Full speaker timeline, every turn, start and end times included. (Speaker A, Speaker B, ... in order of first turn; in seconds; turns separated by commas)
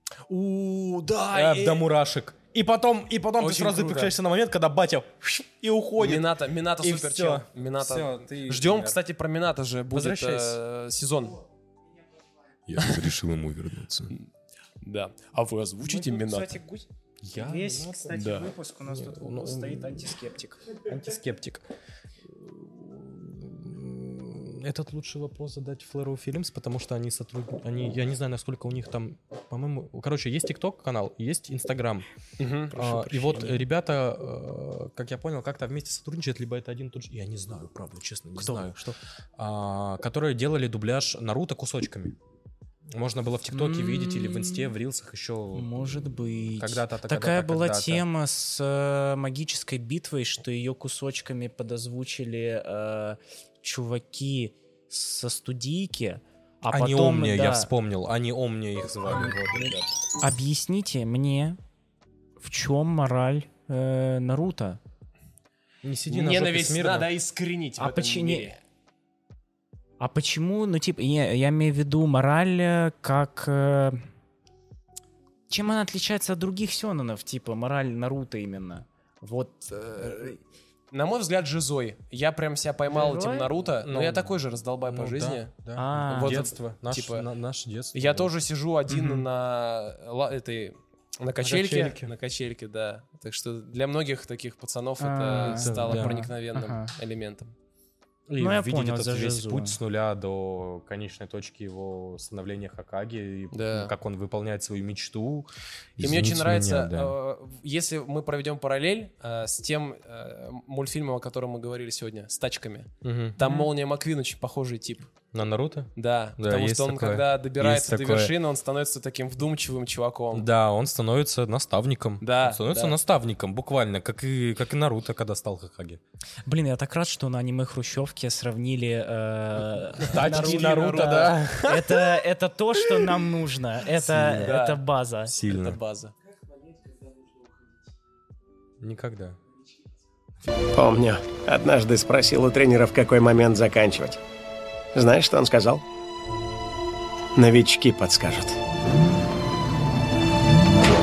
Speaker A: 0.3-1.9, Speaker B: 1.3-9.0, Speaker A: 3.4-4.2, Speaker A: 6.0-11.4, Speaker B: 9.9-10.6, Speaker B: 12.7-14.2, Speaker A: 12.8-13.1, Speaker A: 14.8-16.5, Speaker C: 15.9-20.8, Speaker B: 17.2-20.1, Speaker A: 18.1-18.5, Speaker B: 20.9-21.7, Speaker B: 22.3-32.1, Speaker A: 32.4-33.3, Speaker B: 32.7-42.2, Speaker C: 33.1-33.6, Speaker C: 38.4-39.0, Speaker B: 42.9-48.0, Speaker C: 43.5-44.7, Speaker C: 45.5-57.7, Speaker B: 56.7-60.0, Speaker C: 60.2-61.6, Speaker C: 62.4-64.8, Speaker B: 65.8-67.1, Speaker A: 66.1-68.6, Speaker C: 67.8-68.5, Speaker C: 70.0-74.0, Speaker C: 75.5-80.4, Speaker A: 80.9-85.5, Speaker C: 82.9-83.5, Speaker B: 83.8-84.4, Speaker B: 84.9-88.3, Speaker C: 85.8-86.4, Speaker A: 86.1-87.3, Speaker A: 87.9-97.5, Speaker C: 88.9-89.2, Speaker B: 91.4-92.1, Speaker C: 95.0-96.9, Speaker B: 95.4-96.3, Speaker B: 98.3-107.2, Speaker C: 98.4-99.8, Speaker A: 103.5-103.9, Speaker A: 106.0-115.1, Speaker B: 113.0-113.4, Speaker C: 113.4-113.7, Speaker B: 115.3-118.3, Speaker A: 116.0-120.5, Speaker B: 120.3-126.0, Speaker A: 122.2-123.0, Speaker C: 126.5-135.3, Speaker B: 130.0-131.9, Speaker A: 130.0-132.0, Speaker B: 134.0-134.5, Speaker A: 134.2-134.8, Speaker B: 135.3-135.8, Speaker A: 135.3-136.1, Speaker B: 138.8-139.4, Speaker D: 140.8-144.2, Speaker D: 144.9-145.8, Speaker D: 147.3-148.6